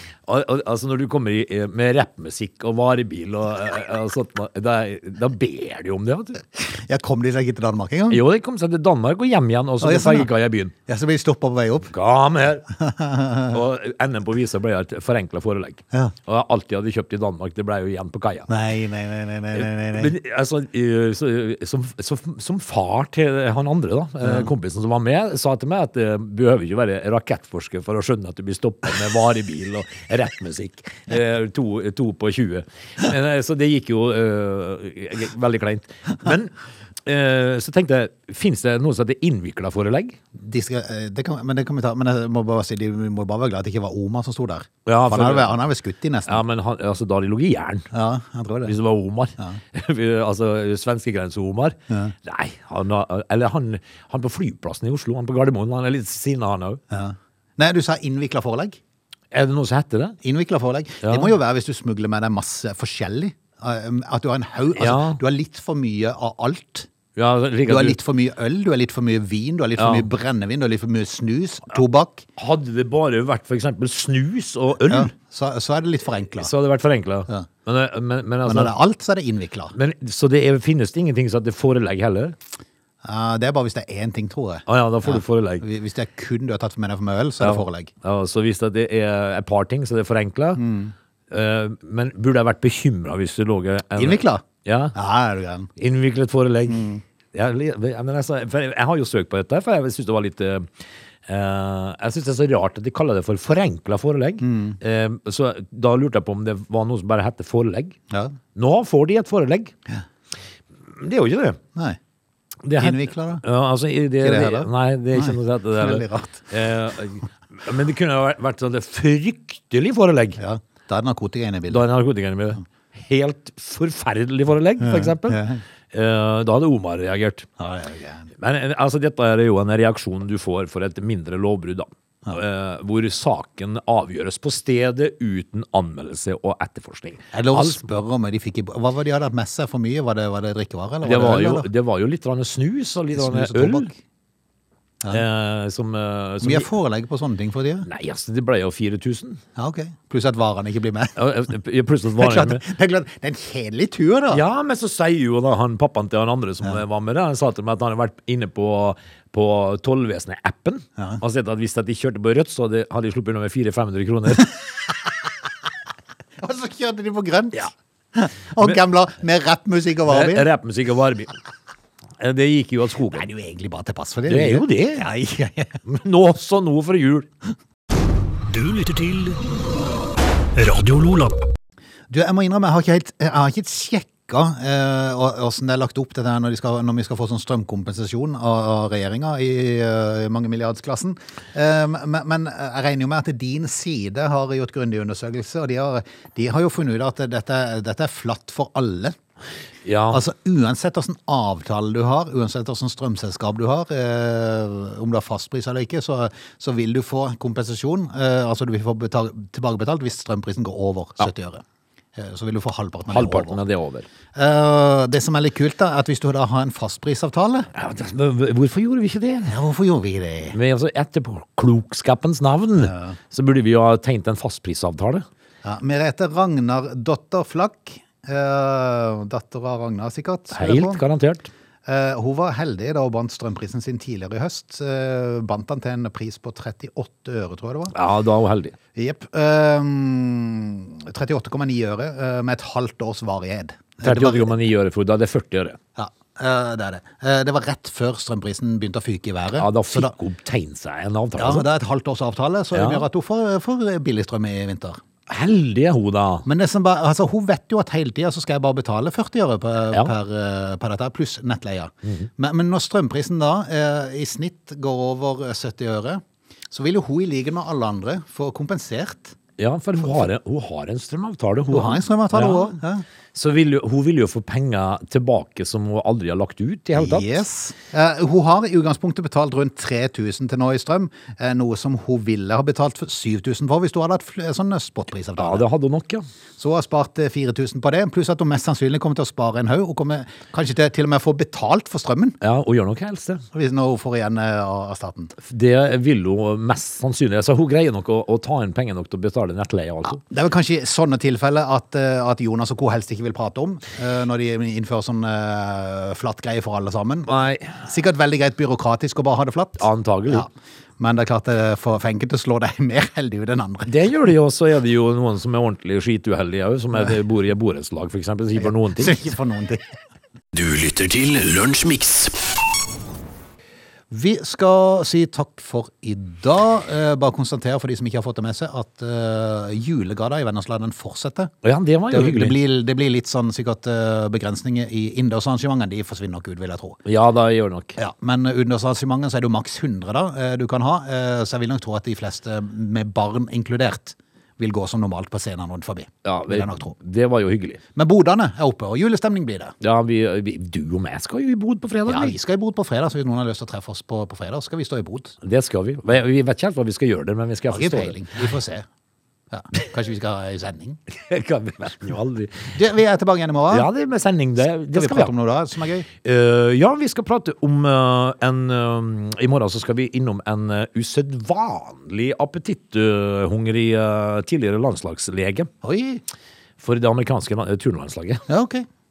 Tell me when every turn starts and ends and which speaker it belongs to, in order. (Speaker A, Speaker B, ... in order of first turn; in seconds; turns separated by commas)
Speaker A: 0.2-6.4, Speaker B: 6.6-8.2, Speaker A: 8.1-10.7, Speaker B: 9.8-10.3, Speaker B: 10.9-11.9, Speaker A: 11.9-12.7, Speaker B: 12.7-13.6, Speaker A: 13.5-18.5, Speaker B: 18.5-20.1, Speaker A: 19.6-36.5, Speaker A: 37.0-40.2, Speaker B: 40.4-46.4, Speaker A: 44.9-45.5, Speaker A: 46.3-47.9, Speaker B: 47.9-48.7, Speaker A: 48.7-56.8, Speaker B: 56.9-58.8, Speaker A: 59.3-60.2, Speaker B: 60.2-66.9, Speaker A: 61.0-61.3, Speaker A: 64.7-65.2, Speaker A: 67.2-68.0, Speaker B: 67.7-72.3, Speaker A: 69.8-70.1, Speaker A: 72.4-75.1, Speaker B: 74.9-76.5, Speaker A: 76.3-78.7, Speaker B: 78.5-79.8, Speaker A: 79.7-82.4, Speaker B: 83.0-87.9, Speaker A: 84.7-85.6, Speaker A: 87.4-90.6, Speaker B: 90.6-90.9, Speaker A: 91.3-95.0, Speaker B: 94.0-95.7, Speaker A: 95.8-100.7, Speaker B: 96.7-97.0, Speaker A: 101.3-108.0, Speaker B: 104.4-104.8, Speaker B: 108.1-108.4, Speaker A: 108.5-109.7, Speaker A: 110.9-111.6, Speaker A: 112.6-120.4, Speaker B: 112.8-113.4, Speaker B: 114.2-116.5, Speaker B: 120.4-121.8, Speaker A: 121.7-127.5, Speaker B: 124.8-125.6, Speaker B: 127.6-128.3, Speaker A: 128.4-137.8, Speaker B: 137.3-141.7, Speaker A: 141.0-143.9, Speaker B: 143.1-144.0, Speaker A: 145.1-146.7, Speaker B: 146.4-147.9, Speaker A: 147.8-149.4, Speaker B: 149.6-151.2, Speaker A: 151.2-152.6, Speaker B: 152.2-154.4, Speaker A: 154.3-164.6, Speaker B: 166.4-170.5, Speaker A: 170.1-171.4, Speaker A: 172.2-173.3, Speaker B: 173.1-175.8, Speaker A: 174.3-175.1, Speaker A: 175.9-177.3, Speaker C: 178.5-179.4, Speaker C: 180.6-181.4, Speaker B: 182.1-199.2, Speaker A: 199.8-200.2, Speaker B: 200.1-211.6, Speaker B: 212.2-213.6, Speaker A: 213.1-214.1, Speaker B: 214.3-217.7, Speaker A: 217.7-219.6, Speaker B: 219.5-220.6, Speaker A: 220.5-225.3, Speaker B: 222.8-223.2, Speaker B: 225.6-231.0, Speaker A: 230.5-231.5, Speaker B: 231.9-237.9, Speaker A: 237.9-238.8, Speaker B: 238.9-244.5, Speaker A: 244.0-245.8, Speaker B: 246.0-250.1, Speaker A: 249.6-251.7, Speaker B: 251.4-255.0, Speaker A: 252.7-253.1, Speaker A: 255.3-256.5, Speaker B: 256.4-269.4, Speaker A: 269.6-272.8, Speaker B: 271.7-273.1, Speaker A: 273.3-277.4, Speaker B: 276.9-285.7, Speaker A: 285.4-286.2, Speaker B: 286.6-292.4, Speaker A: 292.4-293.4, Speaker B: 293.5-295.4, Speaker A: 295.4-300.2, Speaker B: 300.1-314.0, Speaker A: 307.3-307.8, Speaker A: 309.8-310.5, Speaker A: 313.9-319.2, Speaker B: 318.6-320.0, Speaker C: 320.5-322.4, Speaker B: 324.1-331.5, Speaker A: 331.6-332.6, Speaker B: 332.1-337.0, Speaker A: 337.1-338.0, Speaker B: 338.0-346.9, Speaker A: 346.2-347.8, Speaker B: 347.9-349.8, Speaker A: 349.8-352.4, Speaker B: 352.1-355.4, Speaker A: 355.4-358.2, Speaker B: 357.7-358.9, Speaker B: 359.5-361.0, Speaker A: 361.1-362.7, Speaker B: 362.7-363.9, Speaker A: 363.7-365.3, Speaker B: 364.9-366.1, Speaker A: 366.2-375.7, Speaker B: 375.8-376.2, Speaker A: 376.8-378.4, Speaker B: 378.5-378.9